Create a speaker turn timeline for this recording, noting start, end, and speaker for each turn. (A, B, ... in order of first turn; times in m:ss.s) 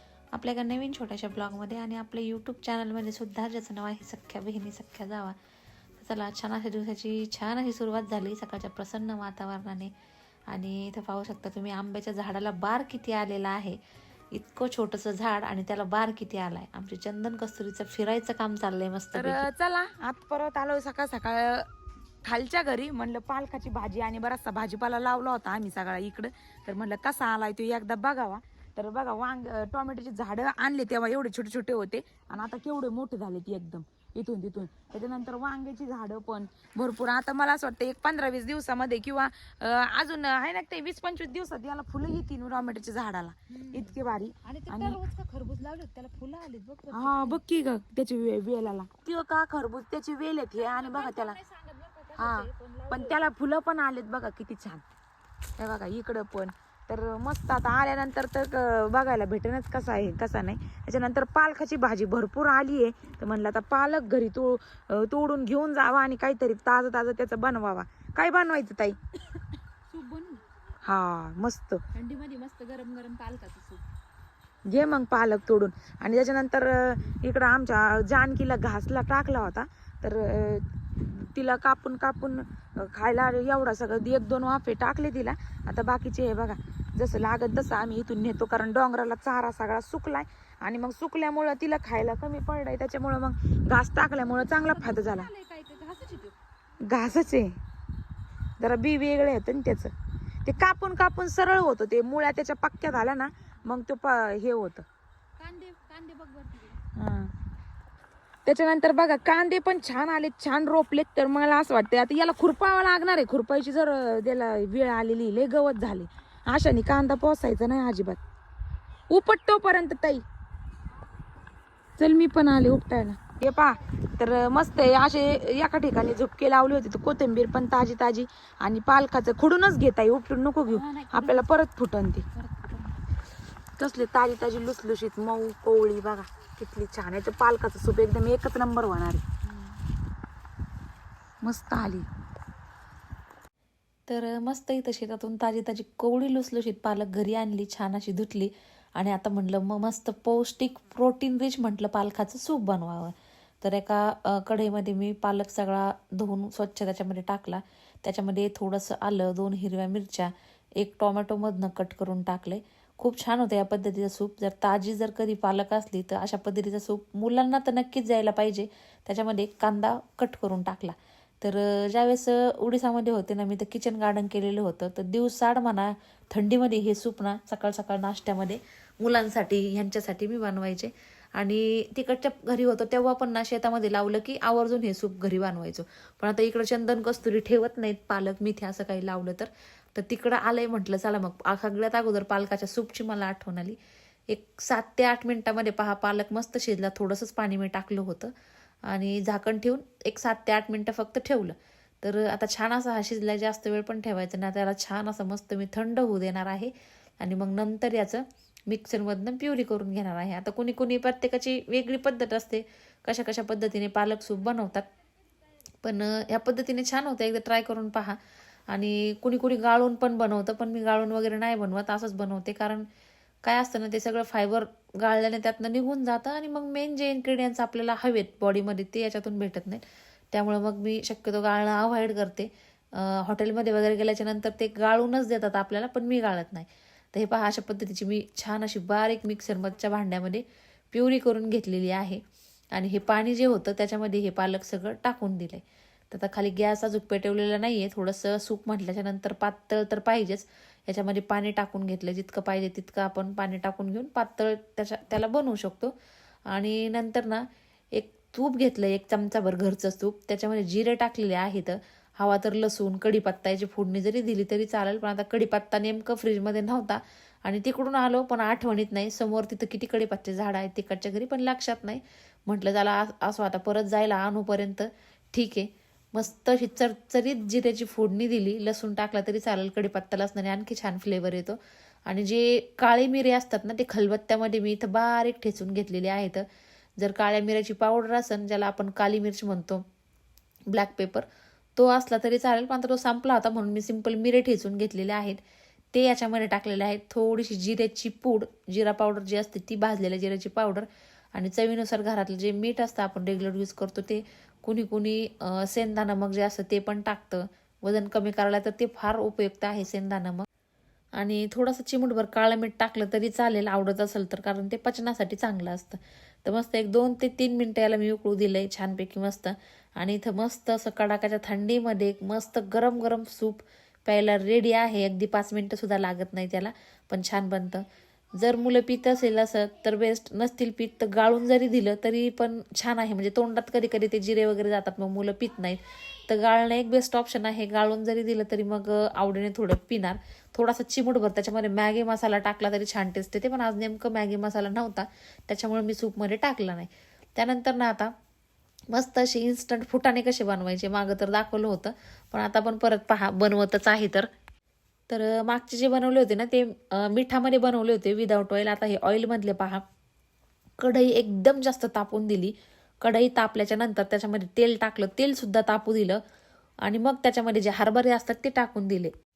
0:00.3-0:05.4 A
0:06.0-0:09.9 A
0:10.5-0:13.8 A
0:14.3-0:19.5 A
0:19.1-0:21.7 B
0:22.2-0:45.0 B
0:43.5-0:47.4 C
0:46.9-0:51.4 B
0:50.6-0:53.2 C
0:52.2-0:54.8 B
0:55.6-1:09.0 B
1:09.9-1:10.4 C
1:10.8-1:11.8 B
1:11.9-1:13.8 C
1:14.6-1:35.3 B
1:34.2-1:36.4 C
1:36.9-1:37.6 B
1:38.6-1:39.9 B
1:40.4-1:44.8 B
1:45.4-1:46.8 C
1:47.0-1:47.3 B
1:48.4-1:58.2 B
1:59.1-2:00.2 B
2:02.0-2:12.2 B
2:10.7-2:11.4 C
2:12.3-2:13.0 C
2:13.8-2:19.2 B
2:19.4-2:19.8 C
2:21.4-2:22.1 B
2:24.1-3:13.8 A
3:14.3-3:18.3 A
3:18.9-3:34.8 A
3:35.8-3:38.2 A
3:38.7-3:42.9 A
3:43.4-4:02.2 A
4:02.7-4:15.9 A
4:16.5-4:46.4 A
4:47.0-4:49.8 A
4:50.7-4:55.4 A
4:55.9-5:10.4 A
5:11.2-5:27.8 A
5:28.4-5:48.1 A
5:48.9-5:54.3 A
5:55.1-5:59.8 A
6:00.8-6:06.2 A
6:06.8-6:09.1 A